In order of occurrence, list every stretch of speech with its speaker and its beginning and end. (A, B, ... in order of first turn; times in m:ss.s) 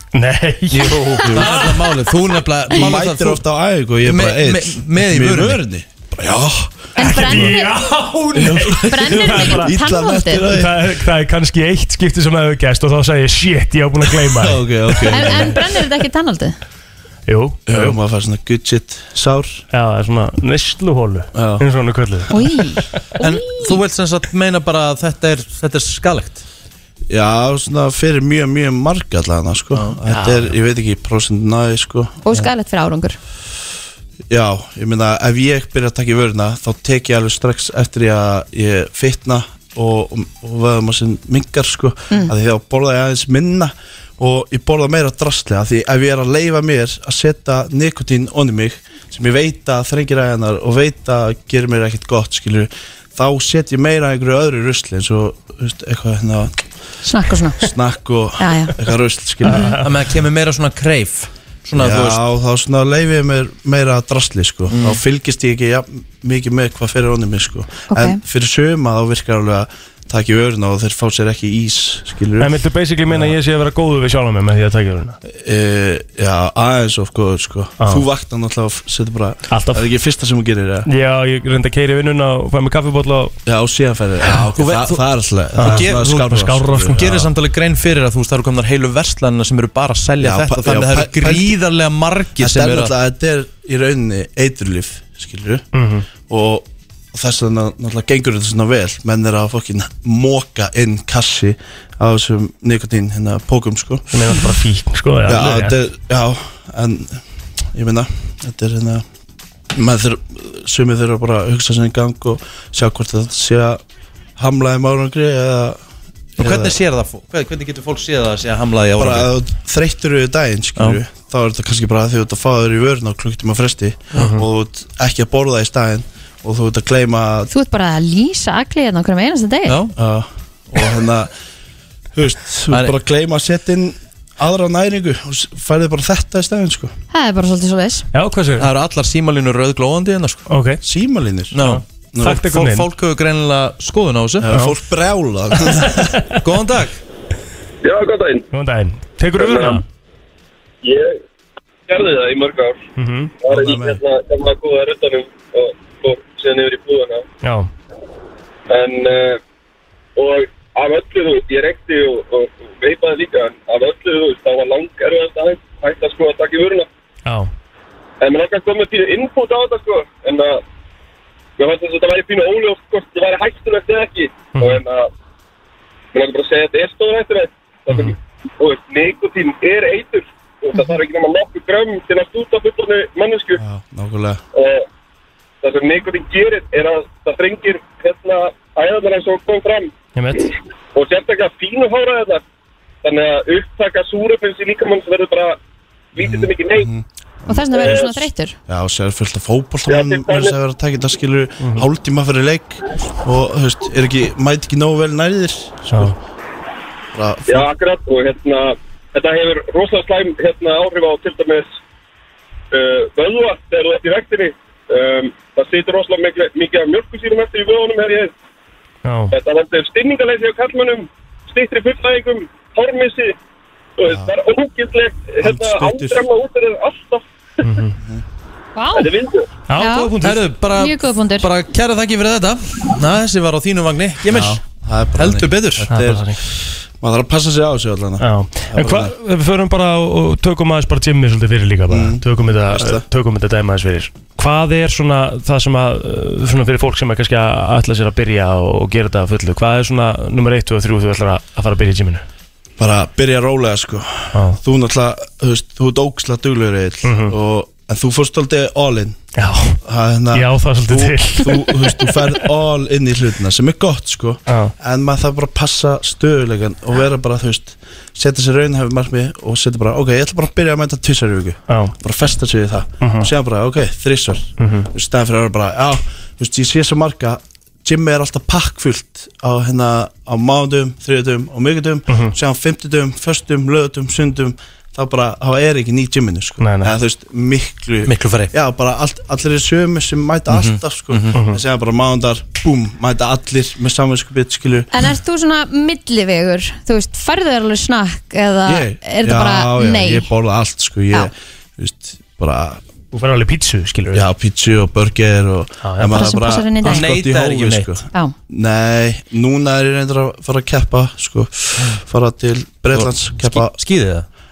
0:00.1-0:01.7 A
0:00.7-0:03.4 B
0:01.2-0:01.6 C
0:02.7-0:07.6 C
0:04.0-0:05.6 B
0:07.0-0:07.8 D
0:07.0-0:09.7 A
0:08.3-0:10.9 C
0:08.8-0:10.5 D
0:10.4-0:15.5 A
0:14.2-0:15.6 C
0:15.0-0:16.6 D
0:17.3-0:18.0 A
0:17.7-0:19.6 C
0:19.7-0:22.9 A
0:21.3-0:21.6 C
0:22.3-0:23.6 D
0:23.2-0:26.4 B
0:27.1-0:32.5 C
0:30.1-0:30.5 A
0:32.2-0:33.2 D
0:34.3-0:56.5 C
0:57.0-0:57.6 D
0:57.6-0:59.7 C
0:58.4-0:58.8 D
0:59.4-0:59.9 A
0:59.5-0:59.8 D
0:59.8-1:02.2 B
1:01.8-1:13.3 C
1:04.7-1:05.0 B
1:07.9-1:08.2 D
1:12.4-1:15.2 A
1:15.3-1:20.9 C
1:17.8-1:18.0 A
1:19.5-1:19.9 A
1:20.9-1:23.3 A
1:23.4-1:27.1 C
1:24.4-1:25.0 B
1:25.6-1:27.3 A
1:25.6-1:26.3 B
1:26.9-1:32.9 B
1:30.2-1:31.6 C
1:32.4-1:44.1 C
1:35.7-1:36.0 A
1:44.1-1:45.8 A
1:45.3-1:47.2 C
1:47.7-1:49.0 C
1:49.7-1:53.8 C
1:54.4-1:55.8 C
1:56.4-1:56.8 C
1:56.4-1:59.3 B
1:59.0-2:07.5 C
2:04.2-2:04.4 A
2:07.5-2:09.8 D
2:09.7-2:09.9 B
2:10.0-2:11.3 C
2:12.1-2:16.9 C
2:17.1-2:18.1 D
2:18.1-2:18.7 A
2:18.6-2:20.4 B
2:20.5-2:20.8 A
2:20.8-2:22.4 C
2:21.5-2:21.8 B
2:21.6-2:22.8 A
2:22.4-2:24.5 B
2:24.4-2:26.3 C
2:24.5-2:24.8 A
2:26.4-2:27.0 B
2:27.8-2:28.5 E
2:28.5-2:29.8 A
2:29.4-2:29.8 E
2:30.8-2:31.2 E
2:31.9-2:32.8 E
2:33.0-2:33.3 A
2:33.4-2:37.2 E
2:33.5-2:34.0 C
2:37.4-2:37.7 A
2:38.7-2:39.4 E
2:40.2-2:46.9 E
2:48.2-2:50.6 E
2:51.6-2:55.1 E
2:54.5-2:54.8 A
2:56.1-3:03.6 E
3:03.6-3:04.4 C
3:04.5-3:04.8 E
3:05.6-3:09.9 E
3:10.1-3:10.5 A
3:10.9-3:12.4 E
3:13.0-3:15.6 E
3:16.1-3:16.9 E
3:16.2-3:18.0 C
3:17.5-3:18.6 D
3:17.7-3:18.1 E
3:18.7-3:26.2 C
3:19.9-3:20.5 E
3:21.6-3:21.9 A
3:27.1-3:27.7 C
3:27.5-3:31.8 E
3:32.7-3:38.3 E
3:39.0-3:39.3 A
3:39.3-3:43.4 E
3:44.0-3:47.2 E
3:44.1-3:44.3 C
3:45.4-3:46.2 C
3:47.6-3:47.9 A
3:48.8-3:49.1 D
3:48.9-3:49.5 E
3:49.7-3:50.4 A
3:49.7-3:50.1 D
3:50.2-3:54.6 B
3:50.7-3:51.5 D
3:54.3-3:59.1 C
3:55.2-3:55.9 B
3:55.9-3:56.4 A
3:58.2-4:12.2 A
4:01.9-4:03.0 C
4:12.8-4:19.2 C
4:14.3-4:14.6 A
4:17.0-4:17.3 A
4:19.4-4:19.8 A
4:19.8-4:54.9 C
4:20.3-4:22.1 A
4:24.5-4:24.7 A
4:31.7-4:31.9 A
4:33.0-4:33.3 A
4:34.6-4:34.9 A
4:42.1-4:42.4 A
4:46.6-4:47.0 A
4:48.0-4:48.5 B
4:50.5-4:51.4 B
4:51.3-4:51.6 A
4:54.9-5:00.3 D
4:58.6-5:02.8 C
5:03.1-5:04.2 A
5:04.1-5:13.8 C
5:05.8-5:06.4 A
5:06.0-5:07.1 D
5:06.8-5:07.9 B
5:12.9-5:14.3 B